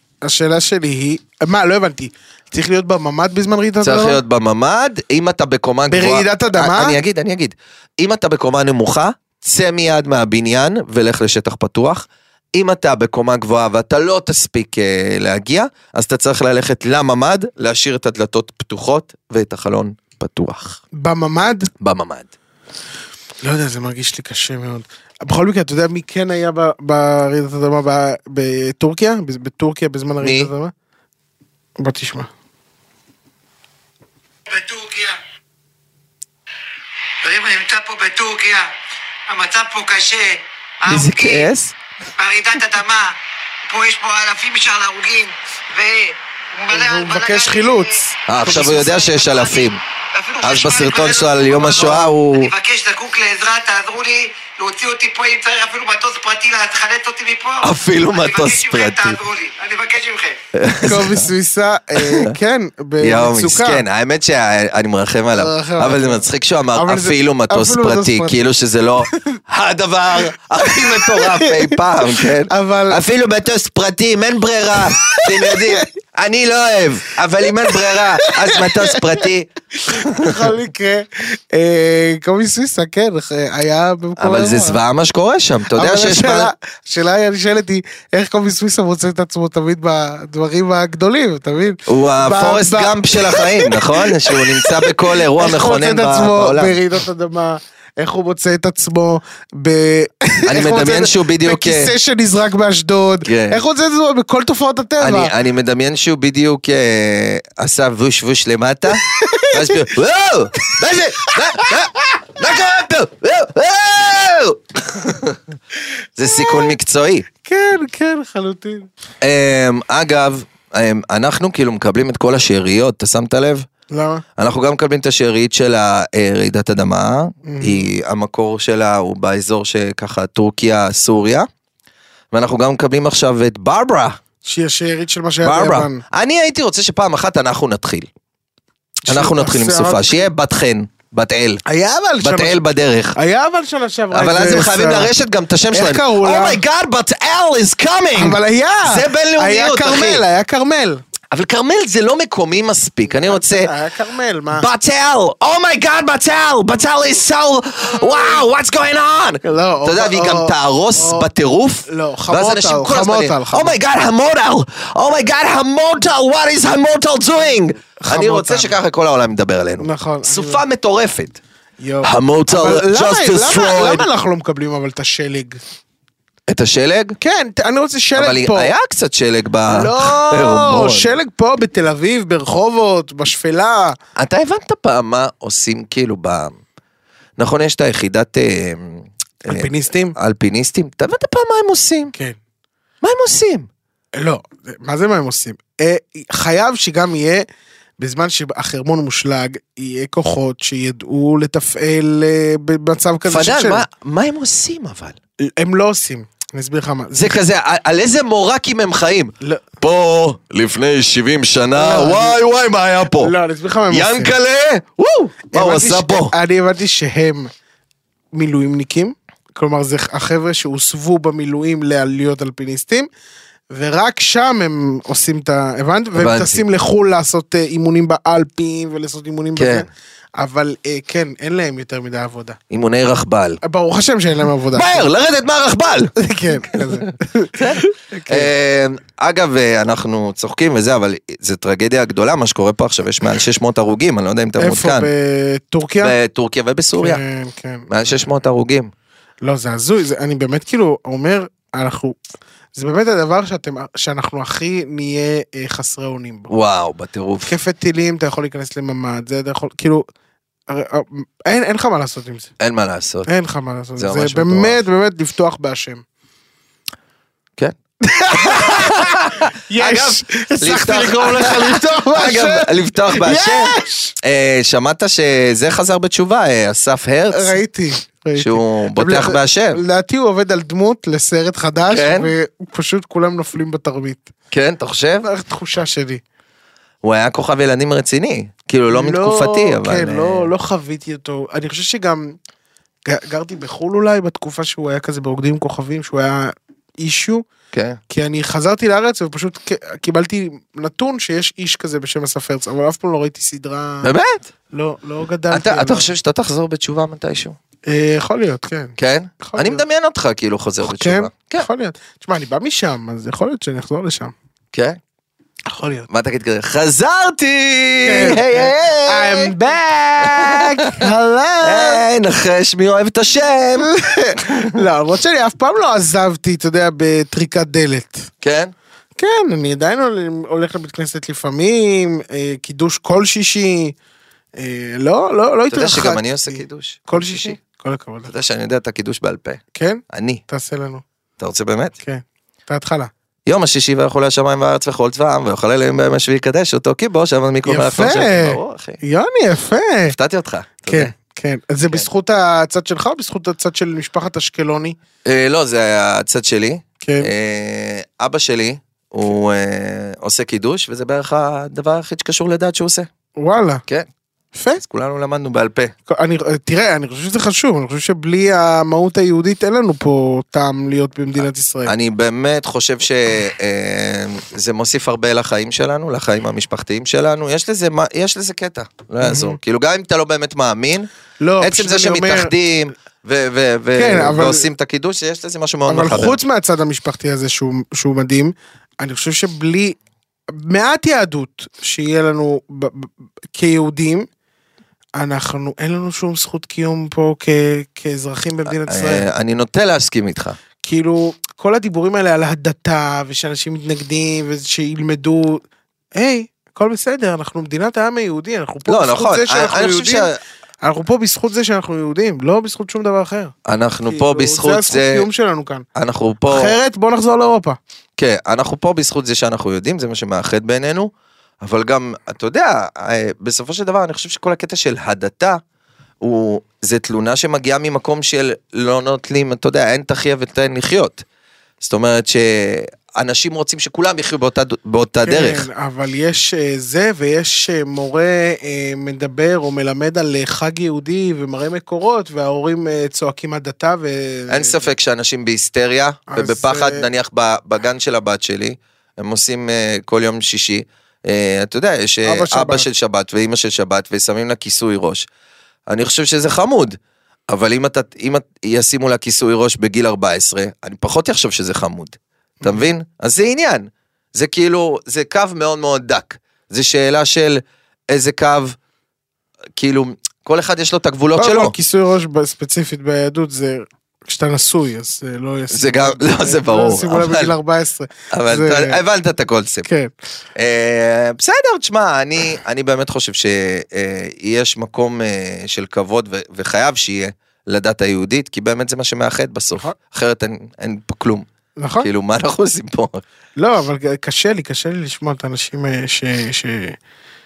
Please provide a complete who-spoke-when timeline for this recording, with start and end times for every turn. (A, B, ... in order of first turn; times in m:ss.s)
0:00.2-0:04.2 A
0:03.8-0:20.8 B
0:05.9-0:07.0 A
0:20.9-0:21.7 A
0:21.8-0:22.3 B
0:23.4-0:30.7 A
0:30.2-0:30.5 B
0:31.8-0:32.3 A
0:34.5-0:35.2 C
0:37.2-0:38.7 C
0:39.3-0:41.5 C
0:40.9-0:41.8 B
0:42.2-0:43.2 C
0:43.7-1:00.4 C
0:46.7-0:48.8 A
0:48.3-0:49.8 B
0:50.4-0:52.5 B
0:51.8-0:52.1 A
0:57.6-0:59.2 B
1:00.6-1:01.3 B
1:00.8-1:03.8 A
1:02.0-1:02.4 B
1:03.0-1:20.5 B
1:05.4-1:08.4 A
1:10.6-1:13.0 A
1:15.0-1:15.6 A
1:17.9-1:19.0 A
1:19.9-1:24.8 A
1:24.2-1:26.5 B
1:25.8-1:45.3 A
1:31.9-1:36.8 B
1:40.5-1:41.9 B
1:43.2-1:43.6 B
1:45.0-1:55.4 B
1:49.0-1:49.8 A
1:50.7-1:52.2 A
1:56.2-1:57.2 B
1:57.4-1:58.9 A
1:59.2-2:03.7 B
2:03.9-2:04.2 A
2:04.4-2:11.5 B
2:07.4-2:07.9 A
2:12.3-2:14.2 B
2:14.4-2:16.0 A
2:15.4-2:18.1 B
2:19.1-2:20.2 A
2:19.1-2:21.6 B
2:21.7-2:22.6 A
2:22.2-2:23.2 B
2:23.2-2:25.1 A
2:24.1-2:30.2 B
2:25.7-2:26.6 A
2:28.1-2:31.0 A
2:31.3-2:33.7 B
2:33.2-2:34.7 A
2:34.5-2:51.4 B
2:39.4-2:41.3 A
2:41.9-2:43.8 A
2:48.0-2:48.8 A
2:49.8-2:50.6 A
2:51.8-2:55.6 A
2:52.0-2:54.1 B
2:56.5-2:57.2 B
2:57.2-2:58.7 A
2:58.2-3:01.1 B
2:59.7-3:04.0 A
3:04.2-3:06.6 B
3:07.4-3:12.1 B
3:09.4-3:10.2 A
3:13.0-3:13.7 B
3:14.2-3:17.4 A
3:18.0-3:23.8 A
3:23.3-3:25.2 B
3:25.4-3:27.4 A
3:27.1-3:33.3 B
3:29.4-3:29.7 A
3:31.7-3:32.4 A
3:33.2-3:34.4 A
3:33.9-3:36.3 B
3:35.5-3:37.5 A
3:38.3-3:43.1 A
3:43.7-3:52.6 A
3:46.2-3:46.6 B
3:49.6-3:49.9 B
3:52.7-3:53.6 B
3:53.6-3:55.1 A
3:54.7-4:05.1 B
3:56.2-3:58.5 A
4:04.6-4:06.2 A
4:06.0-4:07.2 B
4:07.0-4:07.8 A
4:07.9-4:08.9 B
4:09.4-4:12.2 A
4:12.8-4:16.5 A
4:16.5-4:17.5 B
4:17.5-4:20.1 A
4:20.7-4:22.5 A
4:22.6-4:23.3 B
4:23.3-4:26.0 A
4:24.0-4:24.8 B
4:28.0-4:34.2 A
4:28.3-4:37.6 B
4:37.3-4:44.3 A
4:38.4-4:39.8 B
4:41.9-4:42.3 B
4:44.5-4:45.3 B
4:45.2-4:46.2 A
4:47.0-4:50.5 B
4:48.9-4:52.4 A
4:53.1-4:57.4 A
4:57.7-4:58.0 B
4:58.1-5:04.1 A
5:04.0-5:04.5 B
5:04.7-5:06.1 A
5:05.5-5:07.6 B
5:07.8-5:09.8 A
5:09.0-5:11.7 B
5:10.8-5:14.3 A
5:14.7-5:15.0 B
5:15.7-5:16.1 A
5:16.1-5:19.5 B
5:18.0-5:22.0 A
5:20.2-5:21.1 B
5:21.6-5:24.8 B
5:23.8-5:28.3 A
5:28.4-5:28.7 B
5:29.2-5:34.0 A
5:34.6-5:38.3 A
5:35.7-5:37.6 B
5:38.3-5:40.4 B
5:39.8-5:41.0 A
5:41.4-5:42.0 B
5:42.0-5:43.1 A
5:43.4-5:49.0 B
5:47.6-5:50.2 A
5:50.1-5:51.1 B
5:50.8-5:55.0 A
5:55.2-6:03.1 B
5:57.0-5:57.3 A
6:03.4-6:03.8 A
6:04.5-6:04.8 A
6:04.8-6:05.9 B
6:06.1-6:11.9 A
6:11.8-6:21.1 B
6:19.2-6:19.6 A
6:21.4-6:22.5 A
6:21.6-6:26.4 B
6:24.0-6:24.7 A
6:25.9-6:30.0 A
6:30.5-6:34.3 A
6:35.2-6:39.3 A
6:38.7-6:40.6 B
6:40.8-6:45.6 A
6:46.2-6:50.3 A
6:48.9-6:50.4 B
6:50.8-6:53.5 A
6:53.7-6:55.3 B
6:54.1-6:55.8 A
6:55.9-6:56.8 B
6:56.5-6:57.8 A
6:58.2-7:01.1 B
7:01.6-7:05.6 B
7:06.2-7:11.2 B
7:11.8-7:15.7 B
7:15.2-7:24.8 A
7:24.5-7:35.3 B
7:26.3-7:27.0 A
7:32.2-7:32.9 A
7:35.9-7:37.0 B
7:37.5-7:48.8 B
7:42.6-7:42.8 A
7:49.8-7:51.7 B
7:51.4-7:59.0 A
7:55.7-7:57.5 B
7:58.3-7:59.8 B
7:59.8-8:00.1 A
8:00.6-8:11.4 B
8:11.8-8:12.1 A
8:12.0-8:13.2 B
8:13.6-8:17.0 A